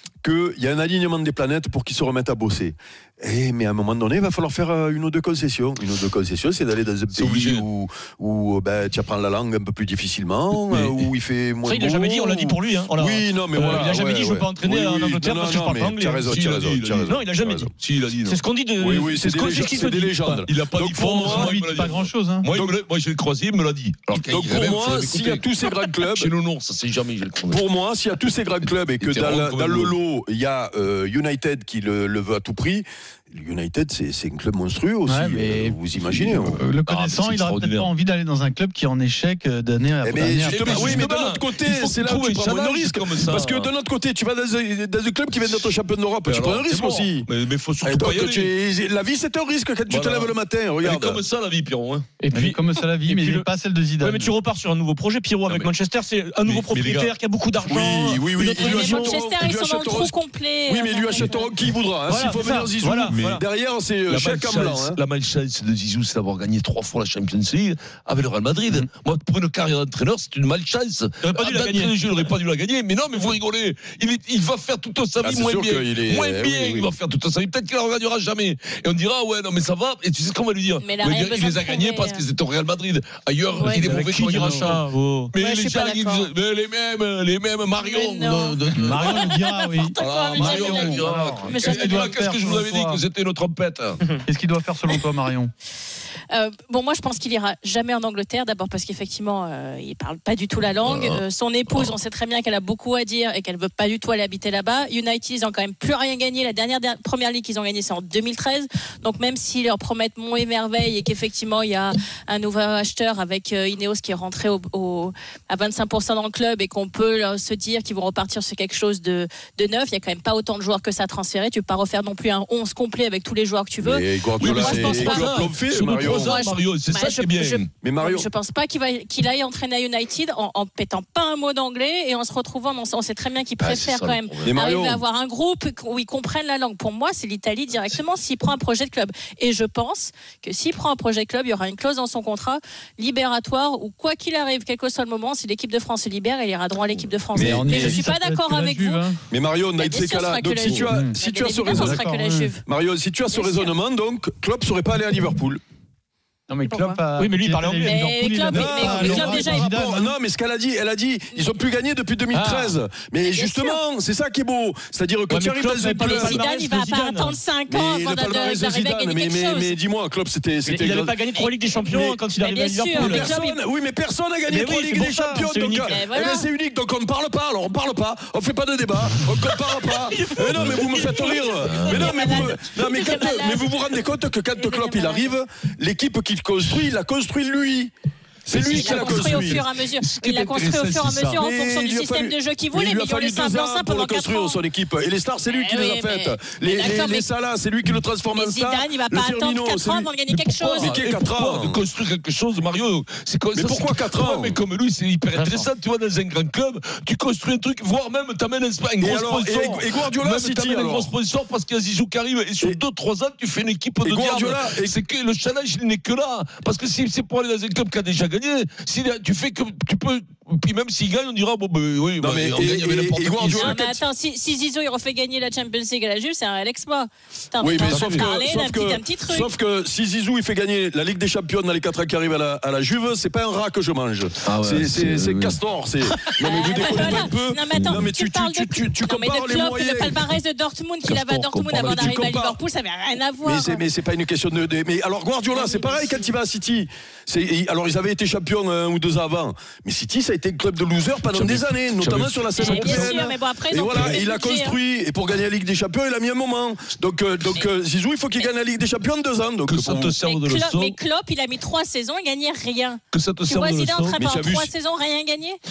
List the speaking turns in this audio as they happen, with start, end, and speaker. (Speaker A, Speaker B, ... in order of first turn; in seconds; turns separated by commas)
Speaker A: 0.2-17.7, Speaker B: 7.1-7.7, Speaker C: 11.6-16.3, Speaker B: 16.3-18.4, Speaker C: 17.1-17.7, Speaker C: 18.3-20.4, Speaker A: 18.8-21.5, Speaker B: 20.4-25.5, Speaker D: 21.3-22.5, Speaker A: 24.1-26.3, Speaker B: 26.1-27.6, Speaker A: 27.5-36.6, Speaker B: 28.7-30.0, Speaker D: 35.1-35.6, Speaker B: 36.0-37.9, Speaker D: 36.6-41.0, Speaker A: 40.0-47.3, Speaker B: 40.5-43.7, Speaker B: 45.4-45.7, Speaker B: 46.3-48.5, Speaker A: 47.9-51.2, Speaker B: 49.9-52.1, Speaker C: 52.2-53.5, Speaker D: 52.3-54.3, Speaker C: 54.0-59.1, Speaker B: 56.5-57.1, Speaker A: 57.6-60.2, Speaker E: 58.4-61.5, Speaker A: 60.7-65.0, Speaker C: 62.1-63.4, Speaker B: 64.1-89.4, Speaker C: 71.2-71.9, Speaker A: 75.2-76.9, Speaker E: 80.8-82.2, Speaker E: 83.6-83.9, Speaker C: 83.7-85.3, Speaker E: 85.4-86.3, Speaker E: 87.8-92.1, Speaker D: 88.8-93.0, Speaker B: 90.0-94.0, Speaker D: 94.3-95.5, Speaker E: 96.3-125.4, Speaker B: 100.8-101.9, Speaker A: 123.8-126.4, Speaker B: 124.4-127.7, Speaker E: 125.9-149.0, Speaker A: 127.8-128.3, Speaker B: 133.6-134.6, Speaker A: 134.5-135.0, Speaker A: 147.3-148.0, Speaker D: 147.4-149.2, Speaker A: 149.3-152.0, Speaker E: 149.8-152.6, Speaker D: 150.8-151.2, Speaker D: 151.7-152.6, Speaker A: 152.6-155.6, Speaker E: 153.3-153.7, Speaker D: 156.5-160.2, Speaker C: 156.7-158.1, Speaker E: 157.8-159.7, Speaker A: 158.5-166.4, Speaker C: 162.3-162.8, Speaker E: 163.2-163.8, Speaker C: 165.3-167.4, Speaker E: 166.0-169.7, Speaker A: 167.7-171.2, Speaker C: 170.7-173.4, Speaker A: 171.7-172.2, Speaker E: 172.4-173.6, Speaker A: 172.9-187.9, Speaker C: 174.5-175.9, Speaker E: 175.8-176.4, Speaker C: 180.5-181.2, Speaker B: 180.6-180.9, Speaker E: 181.1-183.7, Speaker B: 181.6-182.5, Speaker E: 184.6-185.3, Speaker A: 188.5-189.6, Speaker B: 188.5-191.4, Speaker E: 188.6-194.6, Speaker A: 191.3-200.1, Speaker E: 195.5-197.3, Speaker E: 198.3-201.0, Speaker B: 200.3-223.8, Speaker A: 200.8-201.8, Speaker A: 203.6-204.6, Speaker C: 205.3-205.7, Speaker A: 209.0-211.1, Speaker A: 214.0-214.9, Speaker A: 222.2-224.0, Speaker E: 223.5-229.5, Speaker A: 227.6-240.3, Speaker B: 227.9-228.3, Speaker B: 234.4-235.6, Speaker E: 236.4-243.8, Speaker B: 236.7-238.1, Speaker B: 241.0-242.3, Speaker A: 241.8-242.6, Speaker A: 243.4-260.1, Speaker E: 245.5-246.3, Speaker B: 251.3-253.1, Speaker E: 252.6-254.8, Speaker B: 259.7-261.0, Speaker E: 260.2-265.6, Speaker B: 263.1-264.3, Speaker A: 264.2-264.7